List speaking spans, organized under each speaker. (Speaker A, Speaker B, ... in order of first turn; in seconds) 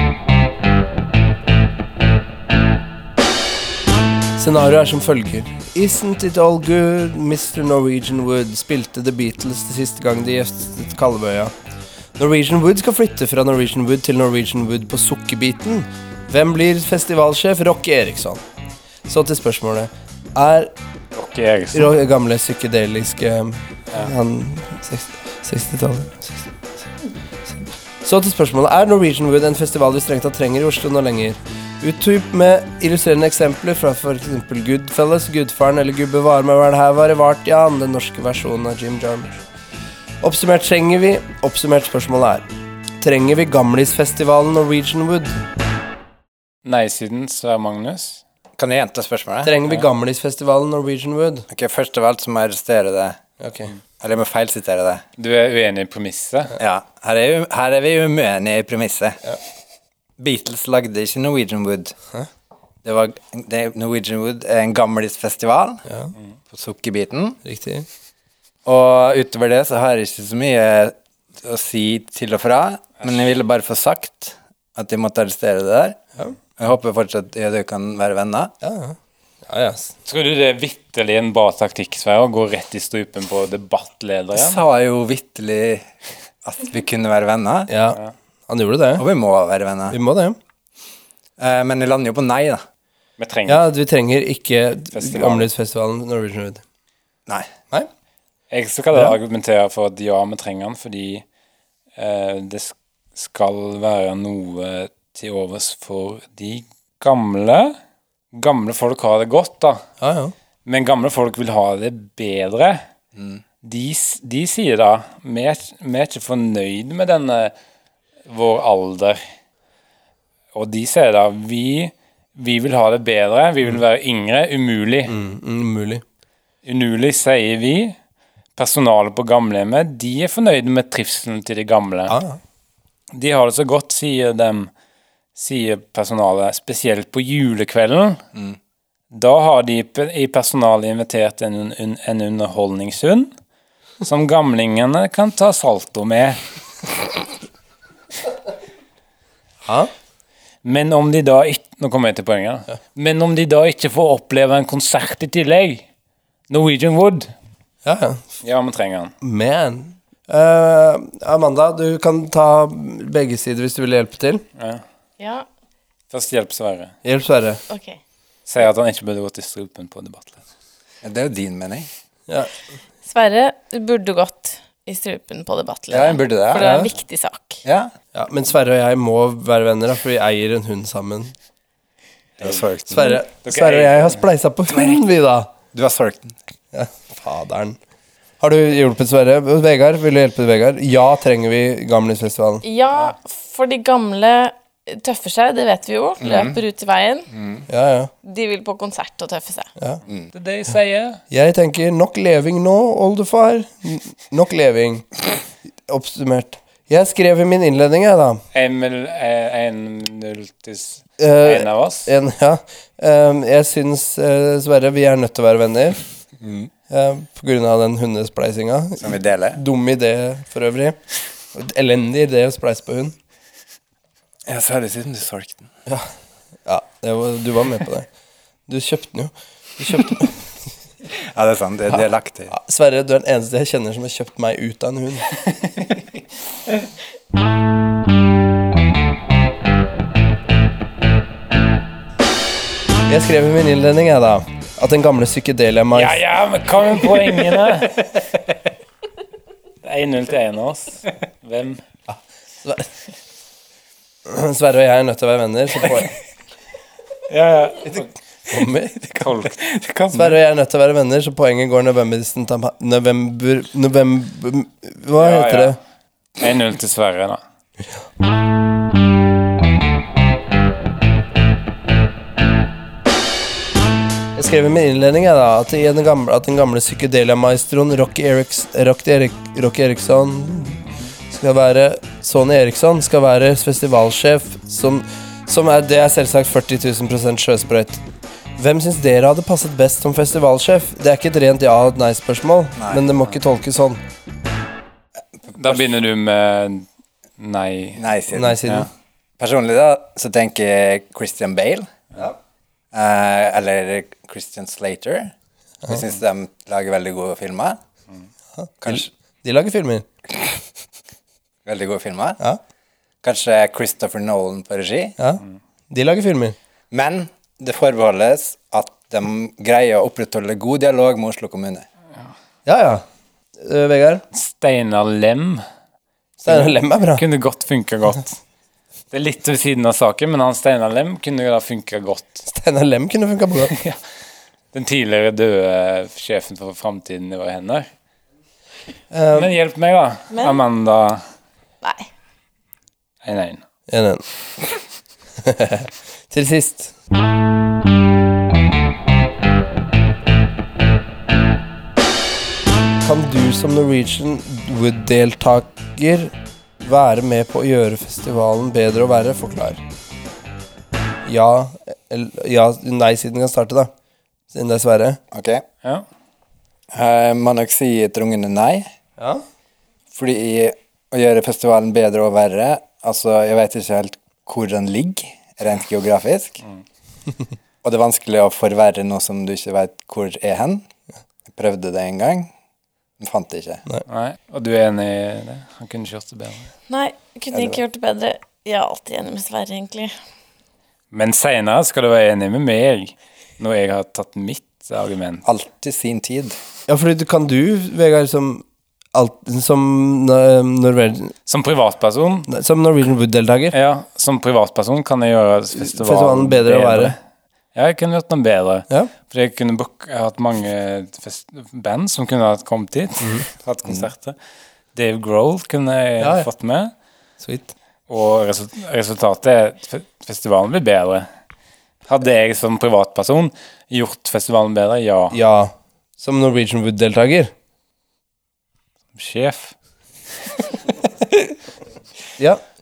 Speaker A: 4.4-11.5, 12.2-18.4, 19.1-20.7, 21.7-26.7, 27.5-39.4, 40.2-42.5, 43.0-45.4, 49.4-51.5, 53.4-53.7, 65.9-66.1, 67.4-67.8, 78.6-79.9, 87.7-89.0, 89.9-90.4, 93.5-96.6, 98.9-99.2, 110.0-110.3, 125.0-126.0, 132.1-132.4, 149.6-149.9, 157.8-158.2, 159.2-164.4, 167.0-167.6, 176.5-176.9, 178.1-181.3, 182.9-185.5, 186.7-187.8, 188.4-192.6, 197.7-198.1, 201.3-205.1, 205.8-208.4, 211.2-216.0, 216.9-221.0, 221.5-223.2, 226.7-228.1, 228.7-230.4, 232.5-235.4, 243.1-246.2, 252.1-252.9, 254.2-256.1, 257.9-259.0, 260.1-265.8, 274.3-288.0, 288.6-294.0, 298.3-298.9, 308.6-310.1, 315.2-316.6, 322.6-323.0, 323.6-324.2, 326.4-327.2, 332.5-333.7, 339.1-339.5, 343.9-344.2, 345.4-346.9, 353.0-359.8, 361.2-363.9, 364.5-365.2, 369.2-369.4, 396.9-401.3, 402.5-403.7, 405.8-407.1, 413.2-413.4, 416.2-416.5, 417.4-417.7, 425.3-427.5
Speaker B: 21.1-21.9, 46.6-48.2, 55.2-56.5, 80.0-84.6, 93.2-93.6, 94.9-95.5, 98.5-101.2, 102.0-107.8, 108.3-109.8, 110.6-112.8, 113.6-117.5, 118.3-119.2, 120.5-125.1, 126.6-128.0, 128.6-132.2, 133.1-134.7, 135.3-138.2, 139.1-143.3, 144.0-146.4, 150.6-155.8, 156.5-157.3, 158.4-159.1, 164.6-164.8, 166.1-166.9, 168.5-170.4, 182.4-184.2, 200.3-201.2, 208.5-212.1, 245.9-248.4, 249.8-251.8, 257.3-258.1, 259.1-259.6, 265.2-265.8, 266.4-267.4, 295.5-296.9, 297.4-298.0, 298.6-298.9, 324.3-325.6, 326.4-328.4, 329.1-332.4, 333.6-334.0, 334.7-337.9, 339.3-341.2, 343.2-343.6, 384.1-386.7, 391.1-395.4, 401.5-402.5, 403.7-407.2, 407.7-414.4, 414.9-416.9, 418.1-421.3, 422.1-425.4, 429.1-429.7
Speaker C: 48.6-49.6, 51.5-53.2, 54.0-55.0, 56.6-59.3, 60.2-62.0, 62.8-65.8, 66.5-67.4, 68.6-76.0, 76.6-78.5, 84.3-85.9, 86.4-87.7, 89.0-90.0, 91.4-92.6, 97.3-97.5, 113.2-113.4, 171.0-171.9, 175.9-176.8, 177.6-177.9, 182.4-183.1, 184.7-185.0, 185.7-186.3, 196.2-196.6, 197.3-197.7, 216.4-216.7, 219.0-219.6, 224.5-225.7, 231.1-232.5, 259.2-260.4, 295.6-295.9, 298.0-298.7, 299.4-301.9, 302.9-305.3, 305.9-307.8, 308.8-309.1, 311.6-312.4, 313.2-315.1, 316.9-321.9, 365.3-365.6, 366.9-368.9, 370.1-376.6, 377.8-380.8, 381.5-382.5, 383.2-383.8, 387.5-387.8, 395.4-396.6
Speaker D: 165.2-165.5, 167.7-168.0, 173.0-177.6, 192.6-197.3, 198.2-199.7, 340.3-340.6, 341.8-342.1, 386.9-390.1